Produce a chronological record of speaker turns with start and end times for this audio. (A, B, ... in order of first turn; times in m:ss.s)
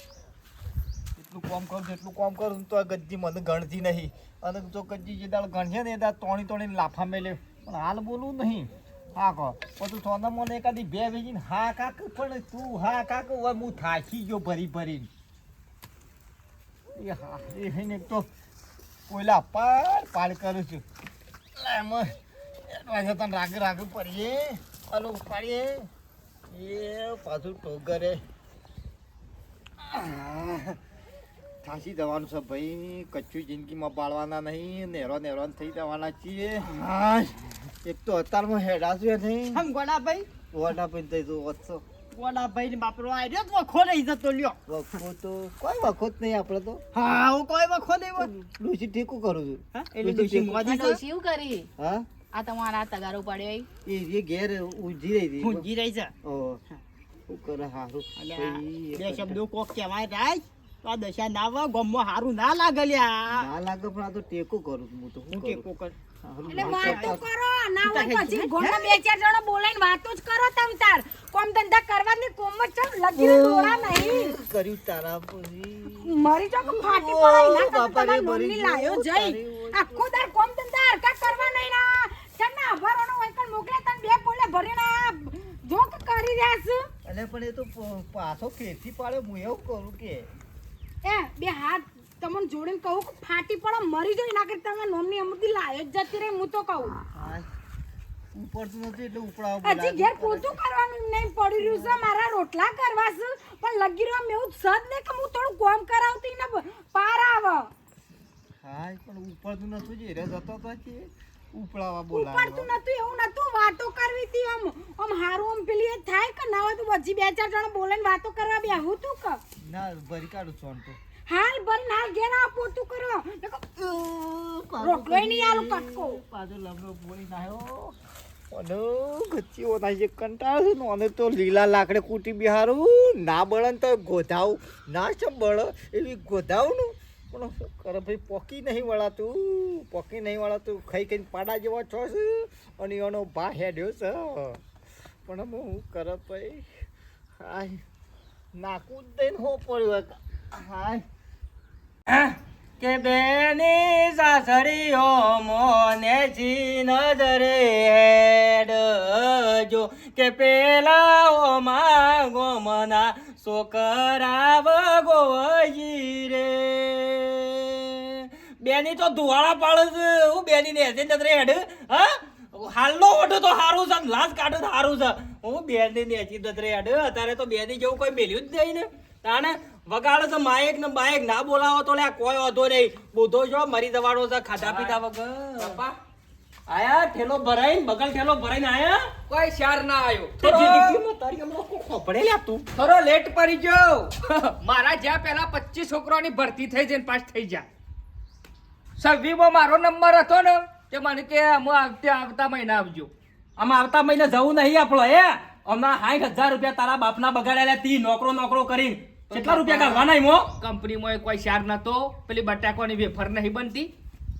0:01.2-0:15.1 A
0:17.0-0:18.3 A
0:19.1-0:20.8 A
0:21.6-0:25.9 A
0:26.5-0:28.2 A
0:29.8-0:30.8 A
0:31.6-0:39.6 A
0:39.5-0:40.3 B
0:40.5-0:41.8 A
0:42.1-0:44.6 B
0:44.7-0:46.8 A
0:46.9-0:48.4 B
0:48.2-0:50.6 A
0:49.8-0:51.0 B
0:50.6-0:51.7 C
0:51.8-0:52.1 A
0:52.3-0:53.7 C
0:53.8-0:55.7 A
0:55.4-0:56.1 B
0:56.2-0:56.6 A
0:57.3-0:59.4 A
0:58.2-1:03.5 B
1:03.3-1:05.7 A
1:05.3-1:06.0 B
1:06.2-1:07.2 A
1:06.5-1:14.3 D
1:06.5-1:07.2 B
1:07.8-1:09.0 B
1:13.1-1:20.2 A
1:16.0-1:26.9 D
1:27.0-1:30.3 A
1:31.0-1:37.0 D
1:37.1-1:37.5 A
1:38.3-1:40.6 A
1:39.6-1:47.7 D
1:41.6-1:42.0 A
1:48.6-1:52.8 A
1:52.1-1:59.4 D
1:59.6-2:01.0 A
2:01.3-2:03.6 D
2:03.6-2:08.0 A
2:04.8-2:06.2 D
2:08.5-2:24.6 A
2:25.2-2:26.7 A
2:27.4-2:27.8 A
2:28.5-2:31.0 A
2:32.1-3:05.8 E
3:04.6-3:05.0 F
3:05.6-3:05.9 F
3:06.7-3:09.1 E
3:09.3-3:11.0 F
3:10.4-3:12.6 E
3:12.8-3:17.7 F
3:19.0-3:23.1 F
3:23.6-3:30.5 E
3:29.3-3:30.1 F
3:30.6-3:33.9 F